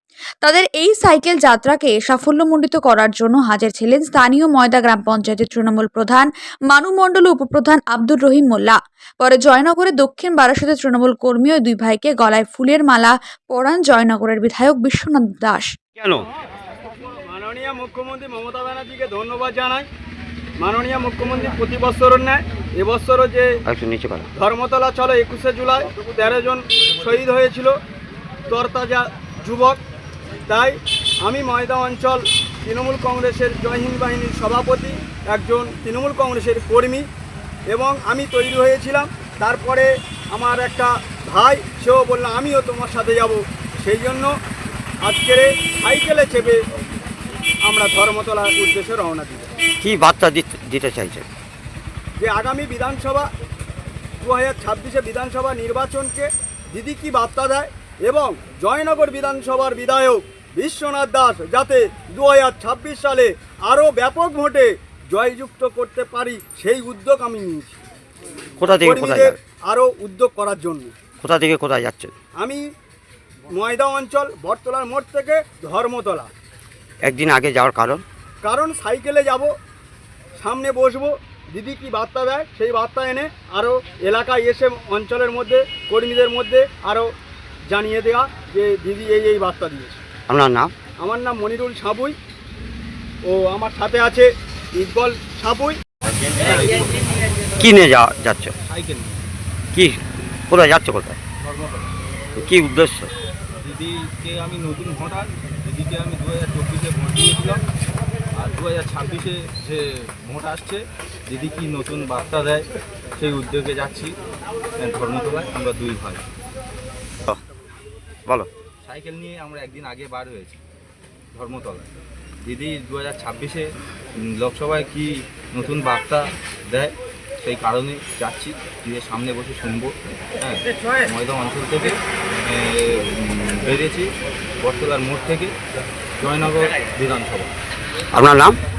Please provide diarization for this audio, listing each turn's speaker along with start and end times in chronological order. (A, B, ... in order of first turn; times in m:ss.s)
0:00.4-0:15.7 A
0:16.0-0:16.3 B
0:17.0-0:19.9 C
0:20.6-0:23.6 C
0:23.7-0:24.3 B
0:24.4-0:27.8 C
0:28.5-0:29.8 C
0:30.5-0:37.1 C
0:37.7-0:44.3 C
0:45.0-0:46.6 C
0:47.6-0:49.5 C
0:49.8-0:51.3 B
0:52.2-0:53.3 C
0:54.2-1:07.8 C
1:08.6-1:09.4 B
1:08.8-1:10.9 C
1:11.2-1:12.1 B
1:12.4-1:12.6 C
1:13.5-1:16.3 C
1:17.0-1:18.0 B
1:18.4-1:19.5 C
1:20.4-1:27.1 C
1:27.7-1:30.0 C
1:30.3-1:30.7 B
1:31.0-1:32.2 C
1:33.3-1:35.8 C
1:36.4-1:37.0 D
1:37.6-1:38.5 B
1:38.6-1:39.2 D
1:39.7-1:41.2 B
1:41.4-1:41.9 D
1:42.4-1:43.1 B
1:43.6-1:47.6 D
1:48.4-1:52.7 D
1:53.2-1:54.1 D
1:54.8-1:56.2 D
1:58.8-2:00.6 D
2:01.3-2:15.5 D
2:16.2-2:17.5 D
2:18.1-2:18.6 B